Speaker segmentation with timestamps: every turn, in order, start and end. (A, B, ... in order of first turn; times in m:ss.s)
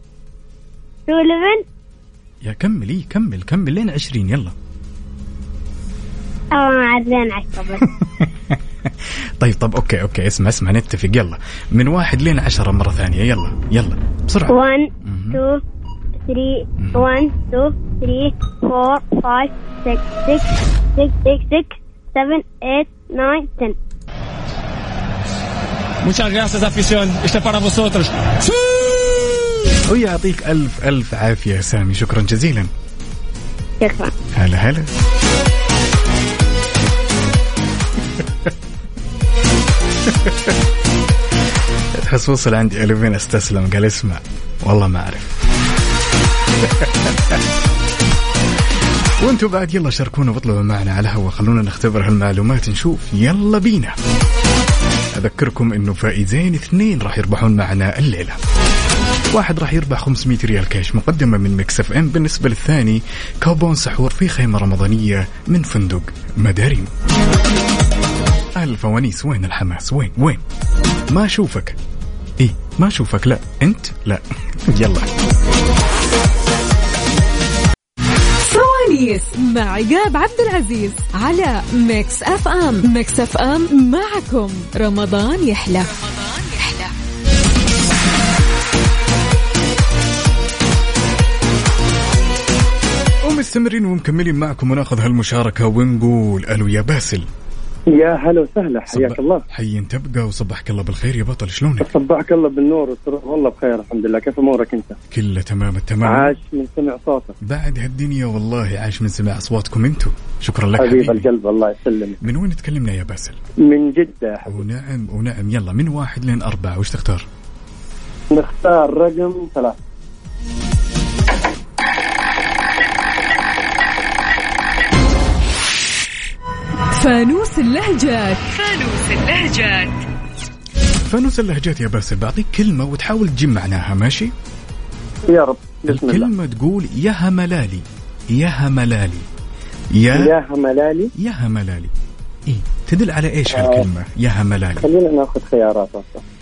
0:01.1-0:01.6 A
0:02.4-0:04.5 B
0:06.5-0:07.8 A
0:08.0-0:15.4 B
0:14.5-0:15.6 A
0:16.2-0:23.8 A
0:26.0-0:28.1 C
0:29.9-0:32.7 B
0:33.8-0:34.1 A
0:34.3-0:34.9 B
0:40.1-0:40.5 B
0:42.0-0:45.4 B
0:46.6-0:47.4 B
0:49.2-0:54.0 B
0:55.1-0:58.4 B
0:59.3-1:06.9 B
1:08.6-1:10.4 B
1:11.1-1:11.8 B
1:12.4-1:15.1 B
1:18.4-1:25.9 D
1:25.8-1:26.9 E
1:33.2-1:37.3 B
1:37.9-1:39.4 F
1:38.9-1:41.9 B
1:41.8-1:45.0 F
1:45.1-1:46.3 B
1:46.1-1:47.3 F
1:47.4-1:51.3 B
1:50.8-1:52.2 F
1:52.2-1:53.4 B
1:53.7-1:54.5 F
1:54.5-1:57.3 B
1:58.3-1:59.8 F
2:06.9-2:08.4 D
2:08.5-2:10.0 E
2:11.0-2:14.3 B
2:15.3-2:16.3 F
2:15.9-2:19.3 B
2:20.0-2:20.3 B
2:20.2-2:21.1 F
2:21.2-2:21.9 B
2:22.5-2:24.9 B
2:23.5-2:23.8 F
2:24.8-2:26.2 F